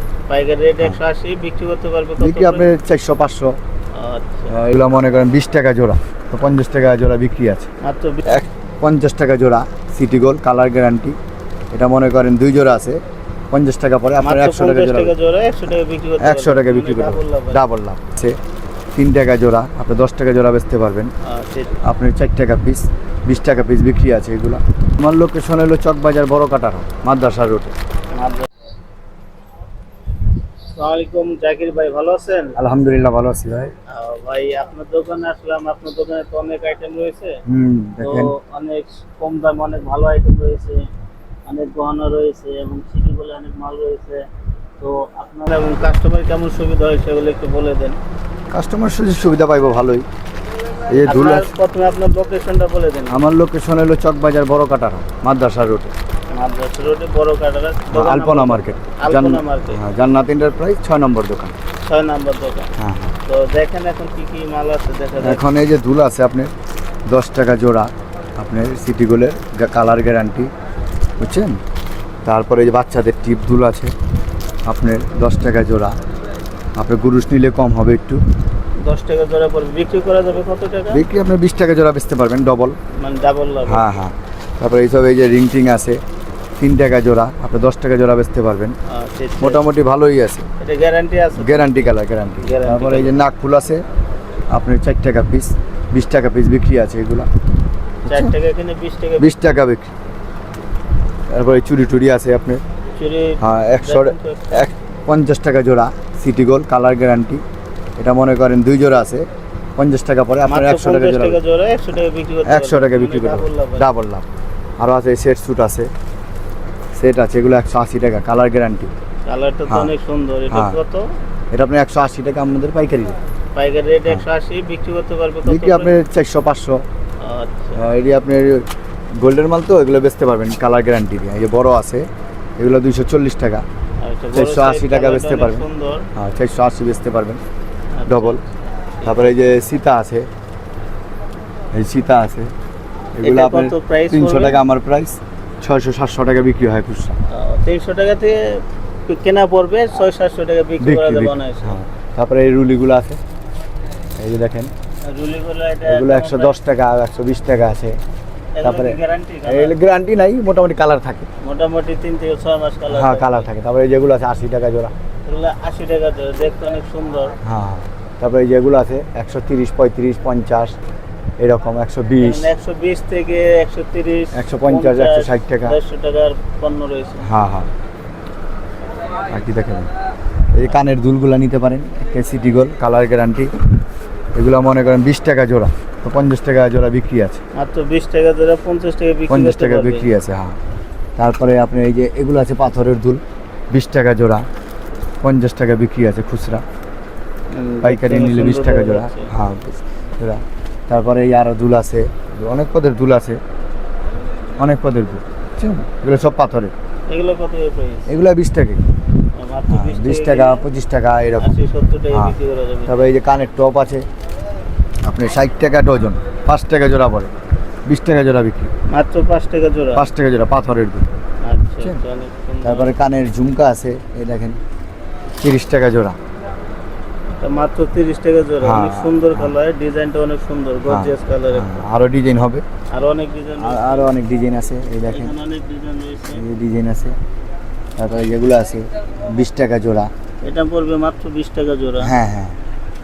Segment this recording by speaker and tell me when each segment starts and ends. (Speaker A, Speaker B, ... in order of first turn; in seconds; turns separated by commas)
Speaker A: 0.3-2.7, Speaker B: 2.2-3.5, Speaker A: 3.9-4.5, Speaker B: 4.5-7.7, Speaker A: 7.8-8.4, Speaker B: 8.3-11.2, Speaker B: 11.7-13.0, Speaker B: 13.5-15.1, Speaker A: 14.2-17.6, Speaker B: 16.2-18.4, Speaker B: 18.9-21.1, Speaker A: 21.2-21.8, Speaker B: 21.8-27.7, Speaker A: 28.1-28.5, Speaker A: 30.7-32.6, Speaker B: 32.6-33.7, Speaker A: 33.9-37.4, Speaker B: 37.5-38.3, Speaker A: 38.0-40.9, Speaker A: 41.5-44.2, Speaker A: 44.8-48.0, Speaker B: 48.5-50.0, Speaker B: 50.9-51.5, Speaker A: 51.0-53.2, Speaker B: 53.1-55.9, Speaker A: 56.3-59.8, Speaker B: 57.9-61.6, Speaker A: 61.8-62.7, Speaker B: 62.8-63.1, Speaker A: 63.2-65.4, Speaker B: 65.2-66.5, Speaker B: 67.1-70.5, Speaker B: 71.2-71.6, Speaker B: 72.2-73.9, Speaker B: 74.7-75.9, Speaker B: 76.8-78.2, Speaker A: 78.8-81.0, Speaker B: 80.9-82.8, Speaker A: 83.0-83.8, Speaker B: 83.7-86.0, Speaker B: 86.6-88.8, Speaker A: 88.9-89.6, Speaker B: 89.4-90.5, Speaker A: 90.6-91.9, Speaker B: 91.3-93.8, Speaker A: 92.4-93.2, Speaker B: 94.5-97.3, Speaker B: 98.0-98.3, Speaker A: 98.1-99.4, Speaker B: 99.2-99.9, Speaker B: 101.3-102.6, Speaker A: 103.0-104.7, Speaker B: 103.4-107.4, Speaker B: 108.0-109.2, Speaker B: 109.8-111.4, Speaker A: 110.4-113.8, Speaker B: 112.5-114.2, Speaker B: 114.8-115.9, Speaker B: 117.0-118.9, Speaker A: 119.3-121.0, Speaker B: 119.7-119.9, Speaker B: 120.5-120.8, Speaker B: 121.5-123.2, Speaker A: 123.5-125.9, Speaker B: 125.5-126.8, Speaker A: 127.2-127.8, Speaker B: 127.8-128.6, Speaker B: 129.2-132.1, Speaker B: 132.6-133.6, Speaker A: 134.0-136.1, Speaker B: 134.3-135.6, Speaker B: 136.2-137.4, Speaker A: 137.9-139.4, Speaker B: 138.1-138.4, Speaker B: 139.0-140.3, Speaker B: 141.7-142.5, Speaker B: 143.2-147.2, Speaker A: 143.2-144.6, Speaker A: 147.3-151.8, Speaker B: 150.8-153.2, Speaker B: 154.2-154.7, Speaker A: 155.1-156.6, Speaker B: 155.8-158.0, Speaker A: 158.5-159.7, Speaker B: 158.6-161.3, Speaker A: 161.4-163.5, Speaker B: 162.9-164.9, Speaker A: 165.3-167.4, Speaker B: 167.4-170.8, Speaker B: 171.4-172.5, Speaker A: 172.2-177.3, Speaker B: 174.3-175.8, Speaker B: 177.2-177.7, Speaker B: 179.3-179.9, Speaker B: 180.5-183.5, Speaker B: 184.3-187.4, Speaker A: 187.6-190.1, Speaker B: 189.3-190.6, Speaker B: 191.2-194.4, Speaker B: 195.2-196.6, Speaker A: 197.5-199.3, Speaker B: 197.8-203.4, Speaker B: 204.6-206.7, Speaker A: 207.1-208.1, Speaker B: 208.1-208.8, Speaker A: 209.4-210.7, Speaker B: 209.7-211.6, Speaker A: 211.4-213.1, Speaker B: 212.9-214.1, Speaker B: 215.0-217.3, Speaker B: 217.9-218.7, Speaker A: 218.9-220.1, Speaker B: 219.9-221.1, Speaker A: 221.4-222.9, Speaker B: 222.6-224.6, Speaker B: 225.4-226.2, Speaker A: 227.4-231.8, Speaker B: 228.6-229.5, Speaker B: 230.9-232.6, Speaker A: 232.9-234.1, Speaker B: 233.6-235.3, Speaker A: 235.1-236.4, Speaker B: 236.3-237.2, Speaker B: 238.0-240.1, Speaker A: 240.4-242.1, Speaker B: 242.0-242.6